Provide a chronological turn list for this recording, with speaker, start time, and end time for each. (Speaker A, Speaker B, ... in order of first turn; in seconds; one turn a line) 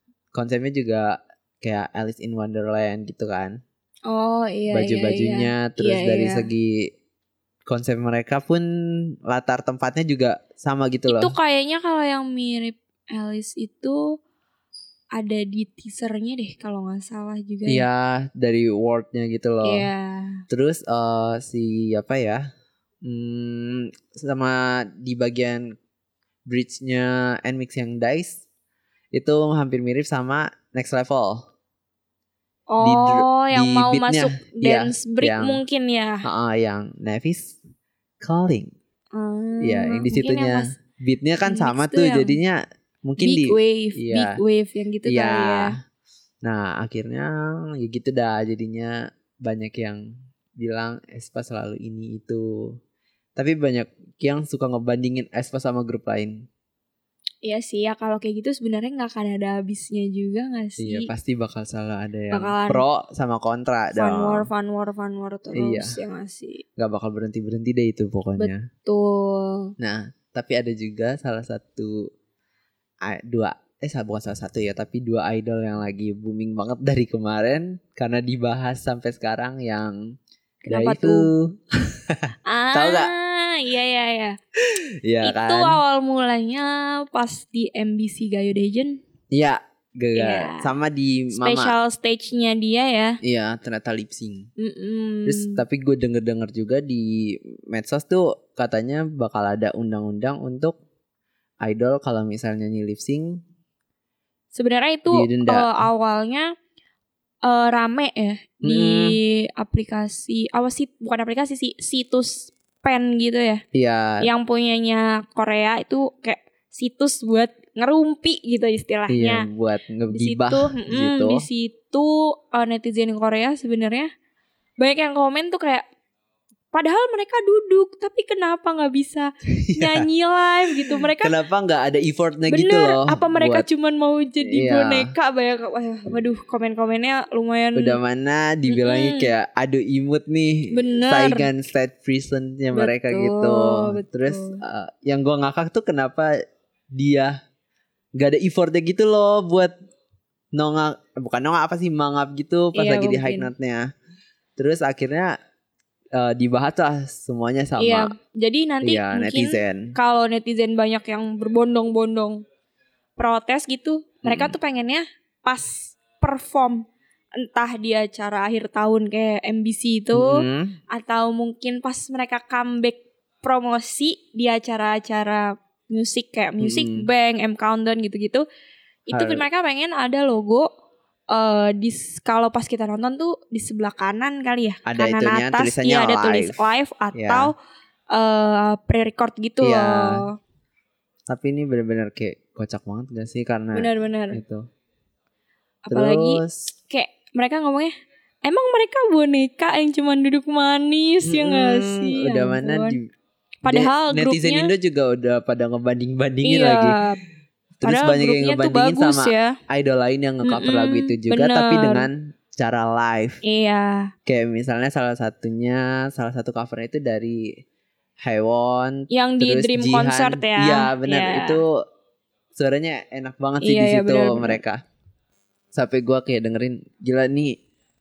Speaker A: 0.3-3.6
Speaker B: 4.0-6.5
Speaker A: 4.7-6.8
Speaker A: 7.7-8.7
Speaker A: 9.3-11.3
Speaker B: 11.1-14.0
Speaker B: 15.1-17.9
Speaker A: 17.6-19.9
Speaker B: 19.6-20.4
Speaker A: 20.5-22.4
Speaker A: 23.0-25.6
Speaker A: 26.5-28.4
Speaker A: 29.1-31.4
Speaker B: 32.7-36.2
Speaker A: 32.8-35.6
Speaker A: 36.2-37.6
Speaker A: 38.2-38.7
Speaker B: 39.1-40.7
Speaker A: 39.6-44.4
Speaker B: 41.4-42.4
Speaker B: 43.2-45.7
Speaker A: 45.0-45.7
Speaker A: 46.4-50.0
Speaker A: 50.5-52.7
Speaker A: 53.4-56.4
Speaker B: 57.4-61.1
Speaker A: 60.8-64.5
Speaker B: 62.3-62.8
Speaker B: 63.9-66.6
Speaker A: 65.5-66.0
Speaker A: 66.8-68.7
Speaker B: 68.4-69.7
Speaker A: 69.8-72.0
Speaker A: 73.0-79.9
Speaker B: 80.7-81.3
Speaker A: 80.7-83.1
Speaker B: 82.5-84.3
Speaker A: 84.7-85.8
Speaker B: 85.2-89.0
Speaker A: 89.3-91.8
Speaker B: 90.2-90.7
Speaker B: 91.3-93.2
Speaker A: 93.2-94.5
Speaker B: 94.6-95.6
Speaker A: 95.2-100.7
Speaker A: 101.6-103.4
Speaker B: 104.5-106.5
Speaker A: 105.1-105.7
Speaker B: 107.5-113.6
Speaker A: 108.6-109.2
Speaker A: 113.7-114.3
Speaker B: 114.2-119.5
Speaker A: 119.1-121.5
Speaker B: 120.1-124.1
Speaker B: 124.8-125.8
Speaker B: 126.7-131.3
Speaker A: 129.7-130.1
Speaker A: 130.8-133.7
Speaker B: 132.5-138.0
Speaker A: 134.4-135.1
Speaker A: 137.7-146.3
Speaker B: 138.7-139.3
Speaker B: 140.7-141.5
Speaker B: 142.7-144.6
Speaker A: 146.9-147.3
Speaker A: 148.2-149.7
Speaker A: 150.5-153.8
Speaker B: 152.7-153.5
Speaker A: 154.6-155.3
Speaker A: 156.2-158.1
Speaker B: 157.8-162.4
Speaker A: 158.8-159.9
Speaker B: 163.2-166.9
Speaker A: 164.2-164.6
Speaker B: 167.4-178.4
Speaker A: 170.1-170.8
Speaker A: 176.6-177.1
Speaker B: 179.1-180.7
Speaker A: 179.1-179.4
Speaker B: 181.3-187.5
Speaker A: 184.8-187.5
Speaker B: 188.1-190.4
Speaker A: 189.6-190.2
Speaker A: 191.3-194.6
Speaker B: 193.7-194.4
Speaker B: 195.8-197.9
Speaker A: 195.9-196.7
Speaker B: 198.4-203.0
Speaker A: 201.2-203.0
Speaker B: 203.6-204.7
Speaker A: 203.7-207.0
Speaker B: 206.4-207.2
Speaker A: 207.8-213.4
Speaker B: 207.8-209.6
Speaker B: 210.4-212.1
Speaker B: 213.4-214.1
Speaker A: 214.2-217.5
Speaker A: 218.2-221.8
Speaker B: 219.1-221.6
Speaker A: 222.6-224.8
Speaker B: 223.6-224.6
Speaker A: 225.7-227.5